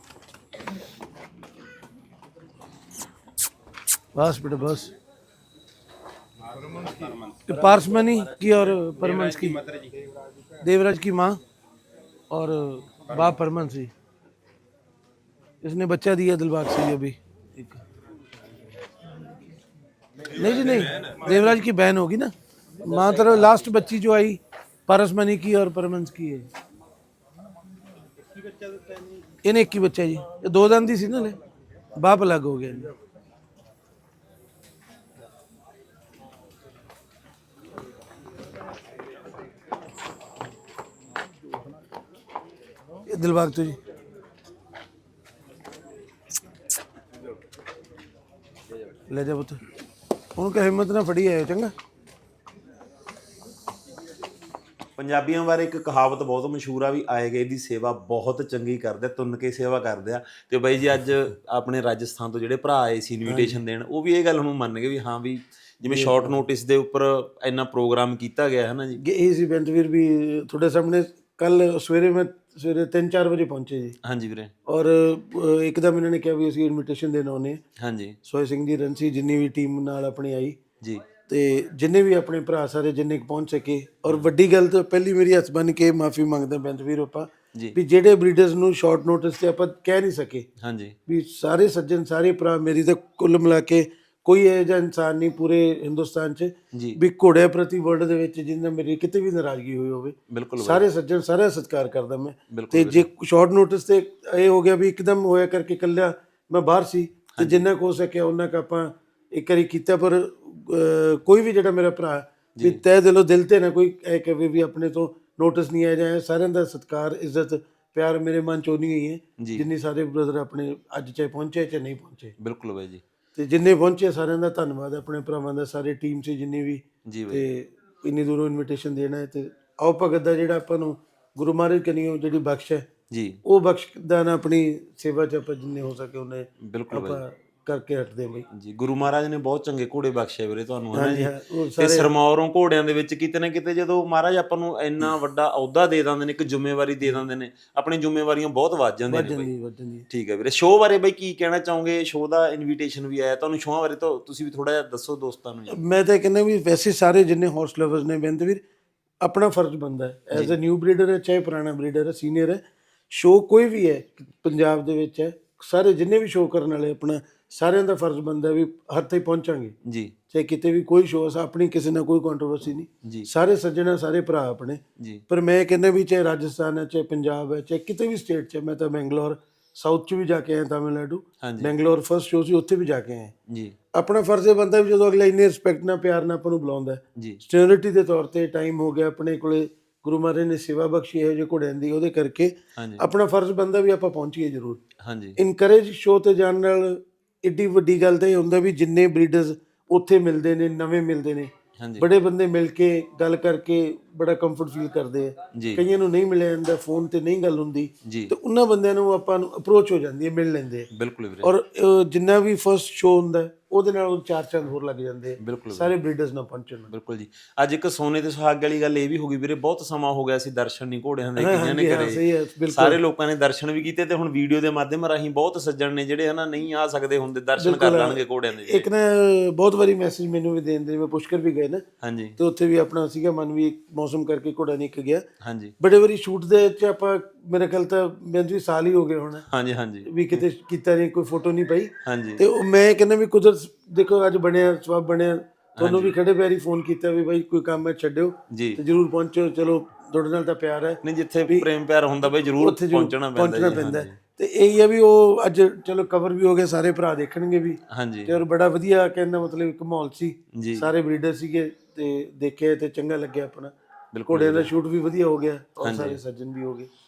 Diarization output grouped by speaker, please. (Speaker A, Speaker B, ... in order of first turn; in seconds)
Speaker A: 4.1-4.9, 7.5-9.7, 10.6-11.4, 12.3-13.9, 15.6-17.8, 20.3-26.5, 29.4-31.4, 31.9-32.9, 43.1-43.8, 49.1-49.6, 50.4-51.7, 63.3-63.6, 65.8-66.3, 69.0-74.0, 74.7-77.6, 78.2-80.6, 81.3-90.5, 91.1-122.3, 123.4-132.8, 133.4-138.5, 140.9-142.1, 149.1-150.1, 155.7-158.6, 159.2-169.8, 170.3-183.3, 183.9-194.8, 195.4-210.9, 211.4-216.9, 221.4-223.0, 227.6-231.8, 232.4-235.2, 235.8-239.4, 240.1-251.7, 252.6-263.7, 264.3-266.9
Speaker B: 55.0-69.0, 74.0-74.5, 77.8-78.2, 90.6-91.0, 96.7-97.0, 100.3-100.8, 102.5-103.1, 107.4-107.7, 119.4-119.7, 122.4-123.0, 127.1-127.4, 133.1-133.4, 136.6-137.2, 138.5-149.5, 150.1-155.8, 160.3-160.6, 169.8-170.1, 181.4-181.7, 183.5-183.8, 187.2-187.4, 192.8-193.0, 195.0-195.4, 201.8-202.1, 205.6-205.8, 208.1-208.3, 210.9-211.5, 215.4-215.9, 216.9-228.9, 232.0-232.4, 235.4-235.8, 239.5-240.5, 242.0-242.4, 245.8-246.2, 248.5-248.8, 251.0-254.2, 257.9-258.4, 260.6-260.9, 264.1-264.7, 265.8-266.2